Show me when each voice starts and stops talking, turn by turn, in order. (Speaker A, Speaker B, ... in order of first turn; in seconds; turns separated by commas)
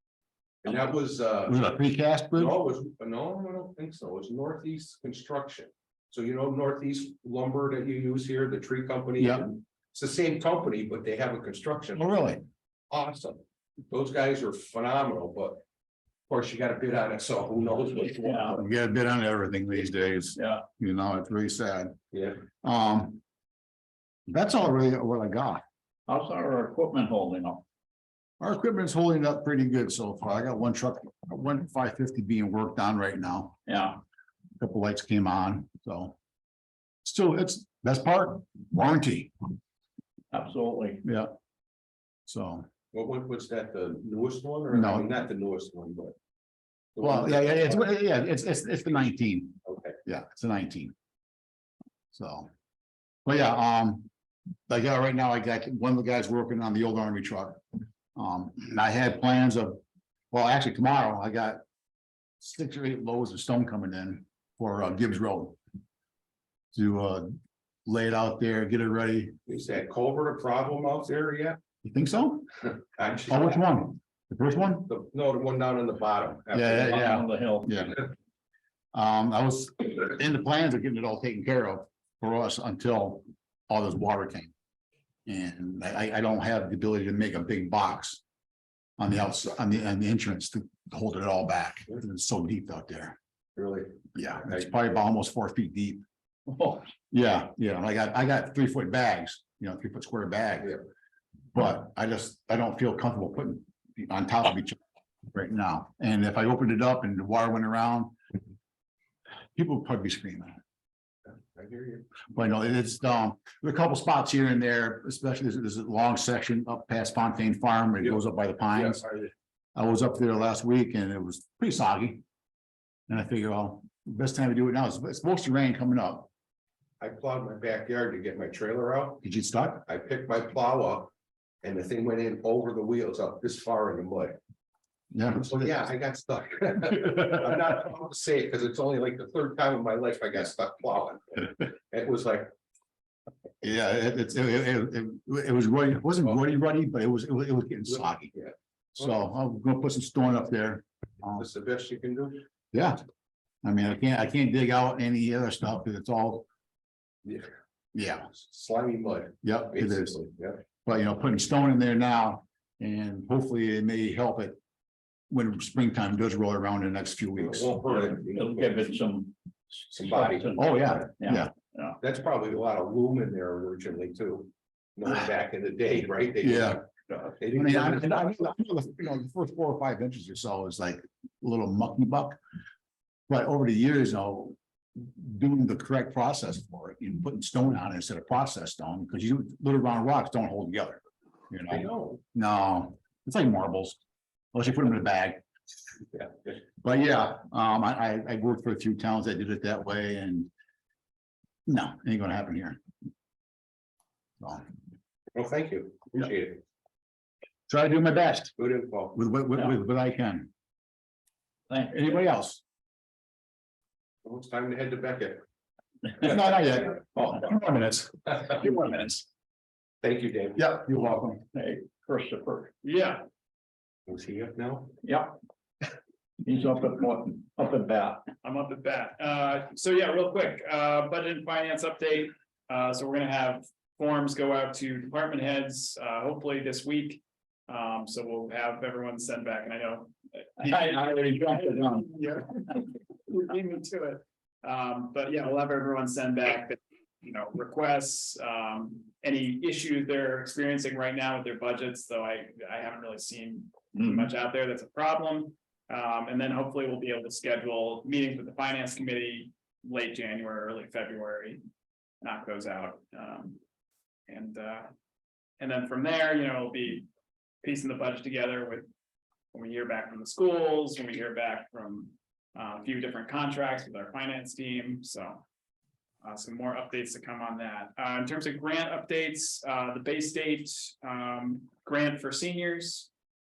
Speaker A: 0.6-1.6, Speaker B: 1.5-2.5, Speaker A: 2.3-12.0, Speaker B: 9.2-9.4, Speaker B: 11.9-12.4, Speaker A: 12.9-15.6, Speaker A: 16.3-18.6, Speaker C: 18.2-18.5, Speaker B: 18.5-21.9, Speaker C: 20.4-20.6, Speaker A: 22.1-22.4, Speaker B: 22.6-23.2, Speaker B: 24.3-25.6, Speaker C: 26.1-27.6, Speaker B: 28.4-33.6, Speaker C: 33.7-34.0, Speaker B: 34.6-36.1, Speaker B: 37.0-39.3, Speaker C: 40.3-41.0, Speaker B: 41.0-41.3, Speaker B: 42.3-42.6, Speaker A: 42.9-46.1, Speaker B: 44.7-45.1, Speaker A: 47.0-47.9, Speaker B: 47.0-50.9, Speaker A: 49.6-50.0, Speaker B: 52.1-52.5, Speaker B: 53.2-54.1, Speaker B: 54.7-57.6, Speaker B: 58.1-59.8, Speaker B: 60.3-61.6, Speaker B: 62.4-65.6, Speaker B: 66.7-67.3, Speaker B: 67.8-69.3, Speaker A: 69.5-71.6, Speaker B: 71.8-72.5, Speaker A: 72.9-73.6, Speaker B: 73.3-74.9, Speaker A: 74.9-77.2, Speaker B: 76.5-78.0, Speaker C: 76.9-77.7, Speaker B: 78.9-84.5, Speaker B: 85.2-88.2, Speaker B: 89.0-93.2, Speaker A: 93.5-94.0, Speaker B: 94.1-96.0, Speaker B: 97.1-100.8, Speaker B: 101.5-104.8, Speaker B: 105.3-108.1, Speaker B: 109.5-110.6, Speaker A: 111.2-112.1, Speaker B: 112.3-119.1, Speaker A: 118.7-119.3, Speaker B: 119.7-122.2, Speaker B: 123.1-126.3, Speaker A: 127.0-129.2, Speaker B: 129.2-129.8, Speaker A: 129.8-131.1, Speaker A: 131.6-134.4, Speaker B: 135.1-135.6, Speaker A: 135.3-142.5, Speaker B: 143.6-148.3, Speaker A: 148.3-149.1, Speaker B: 148.9-151.4, Speaker A: 151.3-152.4, Speaker B: 152.7-153.0, Speaker B: 153.6-156.5, Speaker A: 157.2-157.5, Speaker B: 157.9-158.3, Speaker A: 158.3-160.6, Speaker B: 159.4-160.2, Speaker B: 160.8-164.6, Speaker B: 165.3-167.8, Speaker A: 167.4-168.7, Speaker C: 167.8-172.0, Speaker A: 169.9-170.6, Speaker B: 170.5-171.5, Speaker A: 172.0-178.5, Speaker B: 176.4-176.8, Speaker B: 177.5-182.4, Speaker B: 183.3-194.0, Speaker A: 191.7-192.2, Speaker B: 194.5-195.4, Speaker B: 196.8-200.5, Speaker B: 201.7-202.8, Speaker A: 205.3-206.6, Speaker B: 207.7-208.5, Speaker A: 208.6-209.2, Speaker B: 209.1-210.5, Speaker C: 211.7-212.0, Speaker B: 211.9-212.6, Speaker A: 214.2-215.4, Speaker B: 216.2-219.2, Speaker A: 220.0-220.7, Speaker B: 220.6-221.4, Speaker C: 221.5-222.7, Speaker D: 222.8-223.2, Speaker A: 224.1-224.9, Speaker C: 225.0-225.3, Speaker C: 226.4-228.3, Speaker D: 228.4-240.8, Speaker B: 240.6-242.0, Speaker C: 240.7-241.8, Speaker D: 241.7-261.6, Speaker C: 254.0-254.3, Speaker D: 262.2-263.6, Speaker D: 264.3-264.9, Speaker D: 265.6-267.1, Speaker D: 267.6-268.9, Speaker D: 269.5-275.4, Speaker D: 276.2-283.1